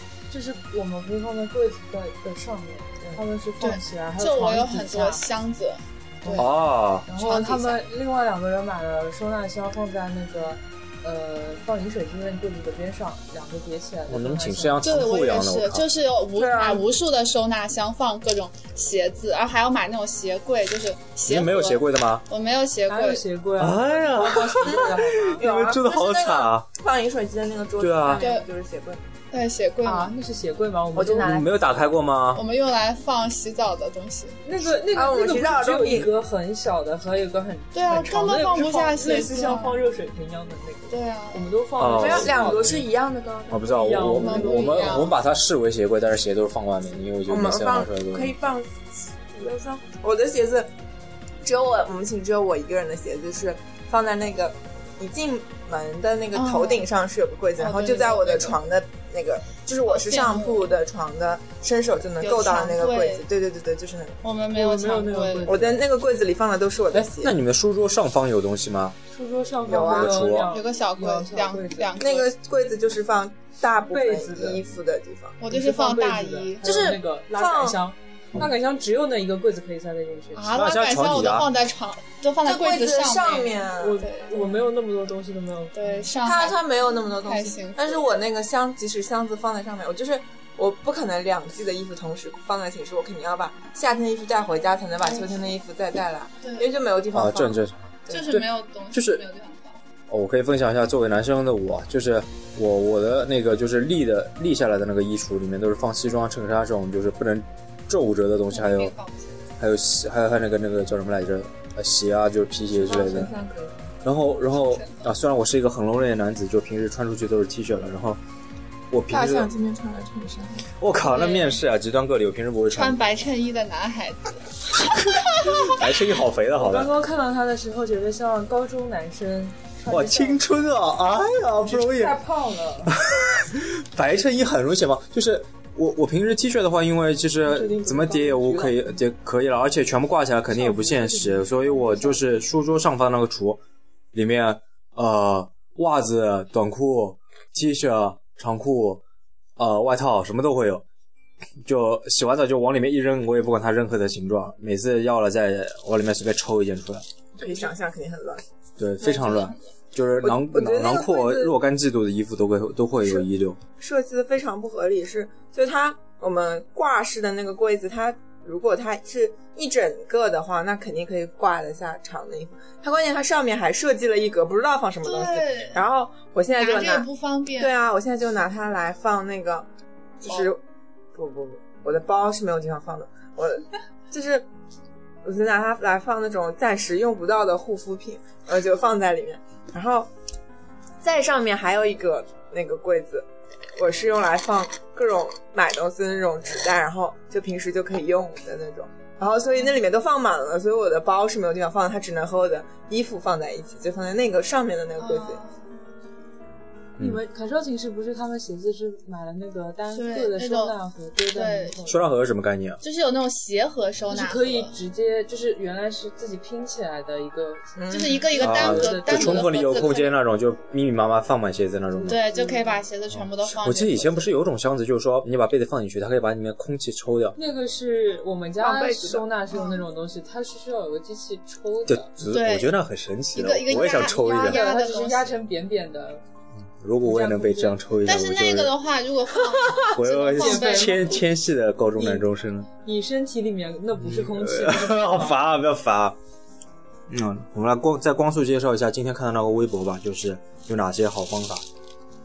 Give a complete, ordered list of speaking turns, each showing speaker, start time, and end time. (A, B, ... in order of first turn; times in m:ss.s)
0:00.3-0:05.2 A
0:03.6-0:06.5 B
0:06.2-0:06.5 A
0:06.3-0:07.1 C
0:07.1-0:14.9 A
0:07.1-0:07.8 B
0:14.1-0:15.8 C
0:14.8-0:23.2 B
0:16.4-0:16.9 D
0:21.2-0:22.2 C
0:22.9-0:25.4 A
0:23.6-0:26.7 C
0:24.6-0:29.0 D
0:27.8-0:28.2 C
0:28.2-0:28.5 B
0:29.3-0:30.1 B
0:29.8-0:31.6 A
0:30.9-0:31.5 D
0:31.2-0:32.4 C
0:32.3-0:34.4 B
0:34.4-0:42.9 A
0:34.9-0:36.1 D
0:37.7-0:39.8 B
0:40.9-0:41.5 B
0:41.8-0:42.8 C
0:41.9-0:45.0 D
0:43.5-0:48.3 C
0:43.6-0:44.9 A
0:44.2-0:45.1 B
0:47.3-0:50.7 D
0:51.4-1:04.2 D
0:56.3-0:56.8 B
0:57.6-0:58.6 B
0:59.8-1:00.7 B
1:02.2-1:03.2 B
1:04.2-1:05.6 B
1:04.5-1:05.8 A
1:05.4-1:07.3 D
1:06.9-1:09.0 C
1:09.1-1:11.9 A
1:09.6-1:10.3 D
1:09.8-1:10.5 C
1:10.2-1:12.3 B
1:12.0-1:15.4 D
1:13.8-1:14.6 A
1:15.4-1:16.6 B
1:15.5-1:20.6 A
1:16.6-1:17.8 D
1:20.3-1:24.6 B
1:20.6-1:21.5 C
1:22.4-1:24.0 D
1:23.8-1:26.0 A
1:25.7-1:28.1 B
1:26.2-1:38.2 D
1:37.1-1:39.2 C
1:38.1-1:39.8 B
1:40.1-1:48.9 C
1:48.5-1:49.4 B
1:49.6-1:53.3 C
1:52.7-1:53.9 D
1:54.0-1:58.2 C
1:54.5-1:55.1 B
1:58.9-1:59.5 C
1:59.1-2:00.7 D
2:00.8-2:03.0 C
2:02.7-2:05.7 B
2:05.6-2:06.9 C
2:06.5-2:10.4 A
2:09.9-2:12.2 C
2:11.6-2:13.0 A
2:13.0-2:23.6 C
2:17.4-2:18.8 D
2:20.7-2:21.3 D
2:21.0-2:22.1 A
2:24.1-2:29.0 C
2:29.6-2:30.8 C
2:31.6-2:37.0 C
2:37.4-2:38.4 D
2:38.8-2:43.6 C
2:39.0-2:39.6 B
2:40.2-2:41.6 D
2:43.8-2:59.6 D
2:55.0-2:55.8 B
2:56.5-2:57.8 B
3:00.2-3:00.6 D
3:01.1-3:04.5 D
3:05.2-3:10.1 D
3:11.0-3:25.4 D
3:25.0-3:25.8 B
3:27.0-3:32.0 A
3:29.9-3:30.8 B
3:31.3-3:31.9 B
3:31.9-3:32.8 C
3:32.8-3:34.7 B
3:34.1-3:37.7 A
3:37.8-3:38.5 D
3:37.9-3:40.1 B
3:38.4-3:39.9 A
3:38.4-3:42.2 C
3:41.9-3:42.8 A
3:42.1-3:44.3 B
3:43.1-3:47.4 C
3:47.3-3:52.1 A
3:48.6-3:49.3 D
3:49.5-3:49.8 B
3:51.9-3:54.6 C
3:52.3-3:52.8 B
3:53.3-3:55.4 B
3:54.3-3:56.2 A
3:56.8-3:58.7 C
3:57.0-3:57.8 A
3:58.0-4:01.2 B
3:59.9-4:02.7 C
4:00.4-4:01.2 A
4:02.0-4:02.3 A
4:02.8-4:05.4 A
4:04.0-4:06.2 C
4:07.1-4:11.6 C